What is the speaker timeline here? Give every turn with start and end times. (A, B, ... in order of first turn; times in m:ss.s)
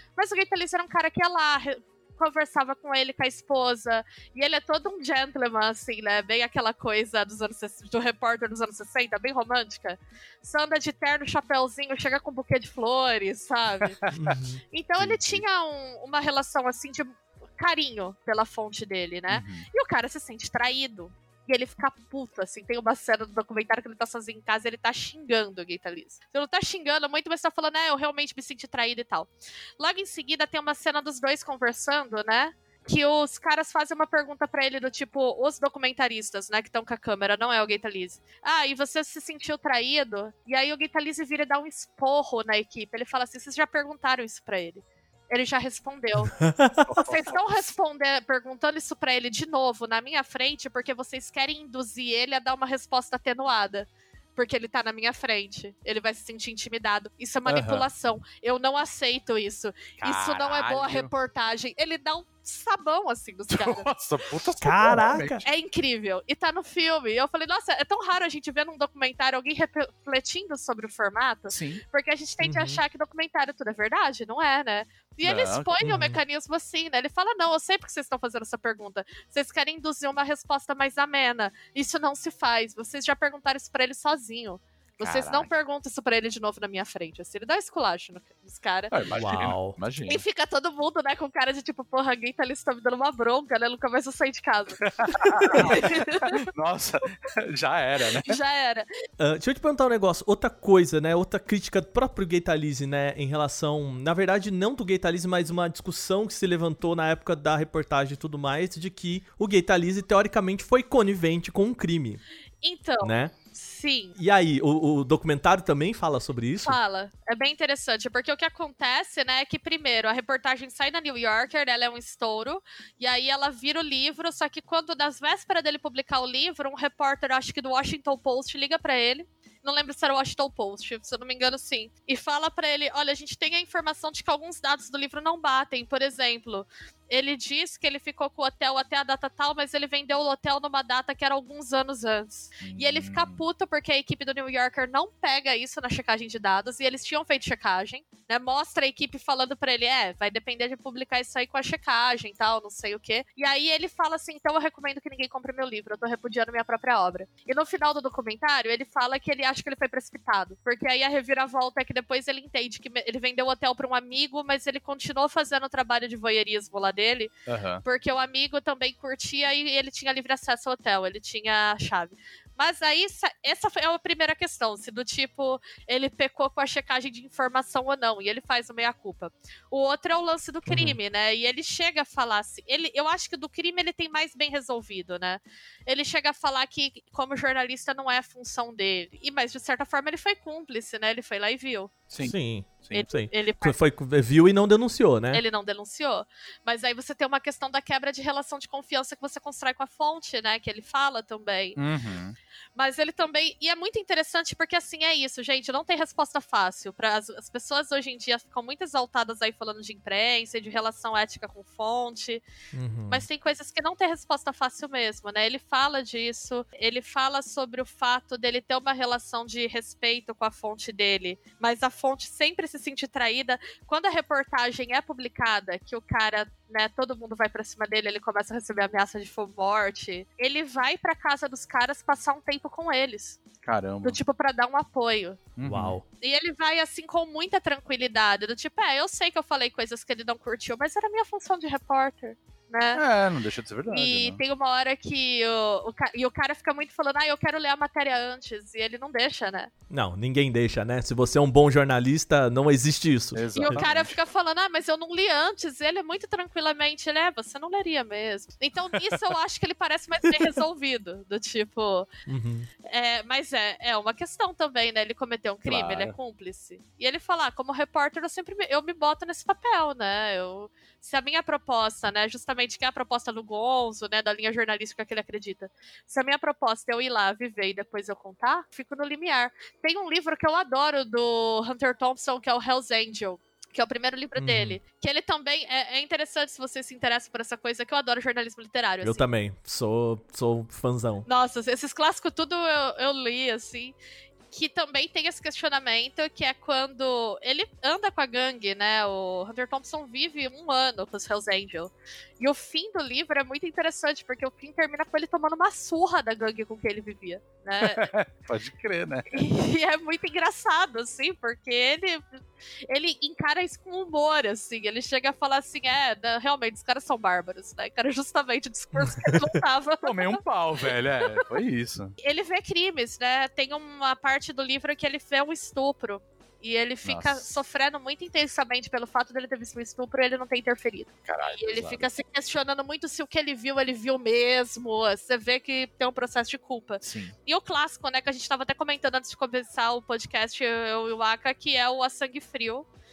0:00.2-0:14.0 A
0:14.1-0:14.6 B
0:14.7-0:46.4 A
0:15.0-0:15.4 C
0:19.3-0:19.6 C
0:46.4-0:46.9 B
0:46.9-0:47.6 C
0:47.0-1:03.9 A
0:57.4-0:57.8 C
1:00.0-1:01.1 C
1:03.5-1:05.4 C
1:04.6-1:05.4 B
1:05.4-1:28.9 A
1:11.5-1:11.8 C
1:12.4-1:12.8 B
1:15.2-1:15.7 C
1:15.8-1:16.2 B
1:25.0-1:25.5 C
1:28.9-1:30.2 C
1:29.1-1:29.8 B
1:30.1-1:34.8 A
1:34.8-1:38.4 C
1:35.2-1:35.7 B
1:35.5-1:36.4 A
1:38.2-1:38.9 A
1:39.2-1:52.2 B
1:52.6-1:54.2 A
1:53.0-1:53.3 B
1:54.2-1:56.8 B
1:56.6-2:47.3 A
2:22.6-2:23.4 C
2:47.5-2:47.8 C
2:47.8-3:11.9 A
3:00.7-3:01.0 B
3:12.2-3:15.4 B
3:12.9-3:13.8 A
3:15.3-3:21.8 A
3:21.8-3:22.3 C
3:22.8-3:32.4 A
3:32.7-3:33.2 B
3:33.1-3:53.4 A
3:53.6-3:54.2 C
3:54.0-3:55.4 A
3:55.6-3:56.0 C
3:55.6-3:56.0 B
3:56.2-4:03.0 A
4:02.9-4:04.4 C
4:03.9-4:09.7 A
4:09.9-4:13.8 B
4:13.3-4:14.2 C
4:13.5-4:22.1 A
4:22.3-4:22.7 B
4:22.9-4:49.2 A
4:25.6-4:26.1 C
4:44.4-4:44.8 B
4:49.0-4:51.2 B
4:51.2-4:53.9 A
4:54.5-5:08.1 A
5:07.8-5:09.4 C
5:09.3-5:20.4 A
5:19.0-5:19.6 B
5:20.0-5:22.2 C
5:22.2-5:42.8 A
5:27.0-5:27.4 C
5:31.3-5:32.0 C
5:37.0-5:37.3 C